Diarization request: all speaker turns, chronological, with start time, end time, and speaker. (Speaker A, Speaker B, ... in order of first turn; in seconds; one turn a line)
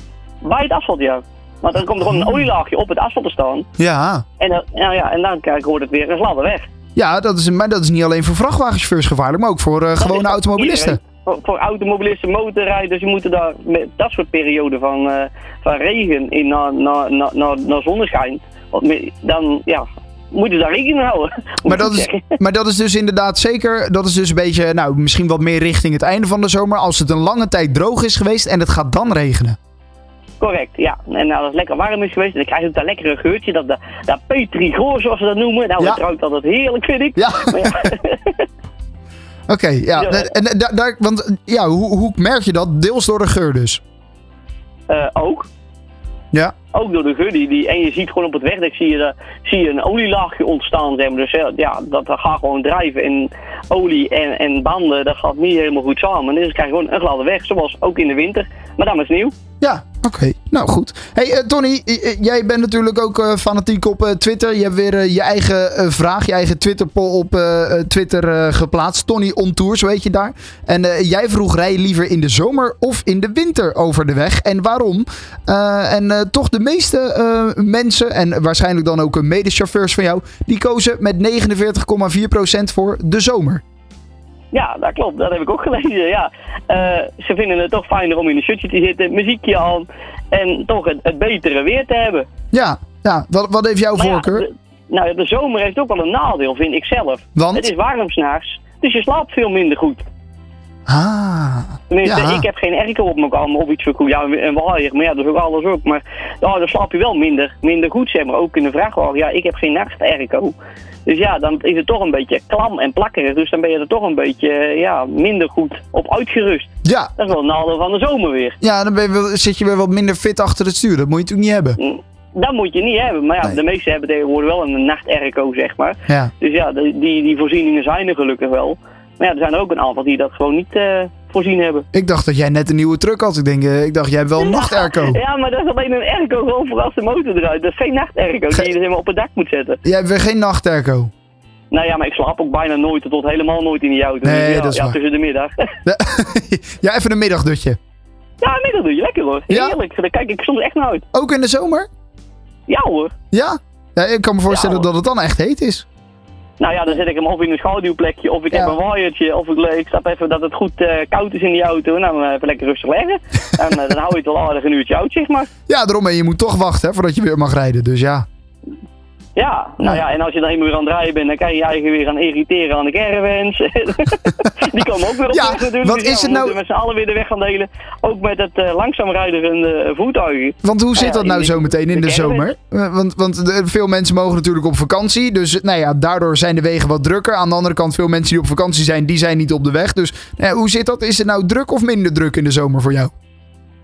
Speaker A: 0.4-3.7
Speaker B: 3.8-4.2
Speaker A: 4.4-6.7
Speaker B: 7.0-11.0
Speaker A: 10.0-22.3
Speaker B: 21.7-29.6
Speaker A: 30.4-38.5
Speaker B: 37.2-37.9
Speaker B: 39.5-43.8
Speaker A: 40.0-40.3
Speaker A: 44.9-45.5
Speaker A: 46.7-59.3
Speaker B: 59.6-83.6
Speaker A: 84.5-92.3
Speaker B: 92.5-94.5
Speaker A: 94.0-100.1
Speaker B: 97.4-97.7
Speaker B: 100.9-102.5
Speaker A: 101.9-118.6
Speaker B: 116.8-117.1
Speaker B: 118.6-121.8
Speaker A: 121.8-131.9
Speaker B: 131.9-135.2
Speaker A: 134.4-139.8
Speaker B: 139.8-141.1
Speaker A: 141.7-145.5
Speaker B: 144.2-145.0
Speaker B: 145.9-147.8
Speaker A: 148.4-151.0
Speaker B: 149.5-149.8
Speaker B: 151.1-151.9
Speaker A: 152.7-153.1
Speaker B: 153.3-155.8
Speaker A: 154.5-154.9
Speaker A: 156.6-165.5
Speaker B: 165.7-168.3
Speaker A: 169.4-182.5
Speaker B: 175.3-176.6
Speaker B: 180.6-193.1